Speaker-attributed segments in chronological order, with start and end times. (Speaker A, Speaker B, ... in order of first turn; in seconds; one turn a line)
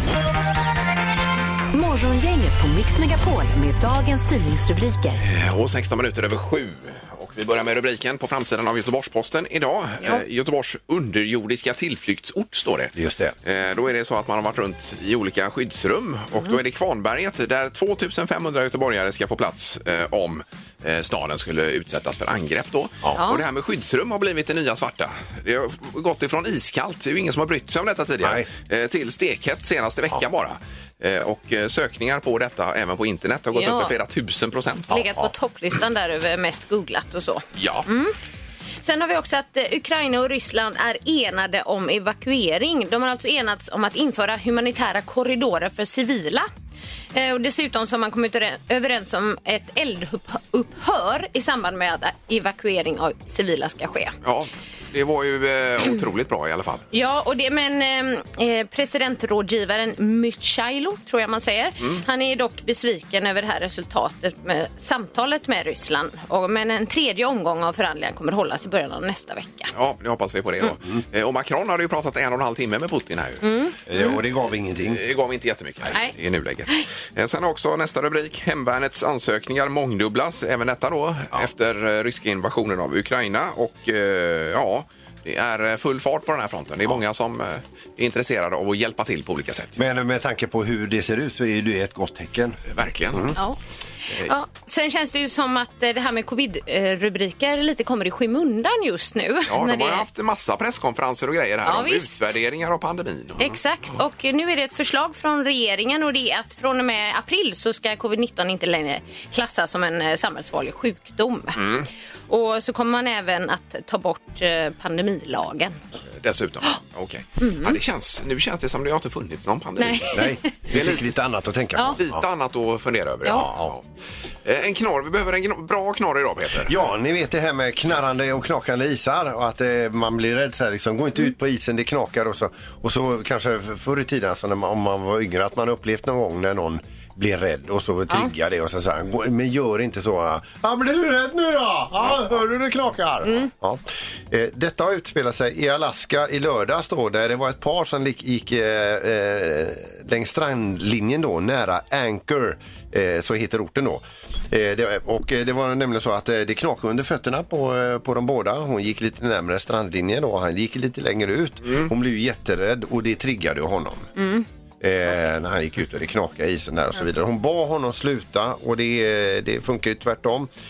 Speaker A: 1.7-5.2
Speaker B: 5.2-35.0
Speaker C: 12.9-13.3
Speaker D: 23.1-23.4
Speaker C: 28.2-28.5
Speaker D: 33.5-33.9
Speaker D: 34.9-38.1
Speaker C: 34.9-35.3
Speaker B: 37.6-37.9
Speaker D: 38.8-46.5
Speaker D: 47.1-54.2
Speaker B: 54.2-56.9
Speaker D: 56.9-69.7
Speaker B: 69.7-73.5
Speaker D: 73.4-74.2
Speaker C: 73.9-75.0
Speaker B: 74.8-89.8
Speaker C: 89.8-92.6
Speaker B: 92.7-93.4
Speaker C: 93.1-93.4
Speaker D: 94.2-100.1
Speaker B: 99.5-103.6
Speaker D: 101.6-102.2
Speaker D: 103.4-111.6
Speaker B: 111.6-111.9
Speaker D: 112.3-115.8
Speaker B: 116.2-121.0
Speaker D: 117.4-117.8
Speaker D: 119.8-120.5
Speaker C: 120.1-122.2
Speaker B: 122.0-123.8
Speaker C: 123.3-123.8
Speaker B: 124.5-126.8
Speaker C: 126.6-164.1
Speaker D: 143.2-143.5
Speaker D: 164.2-164.5
Speaker C: 164.8-170.5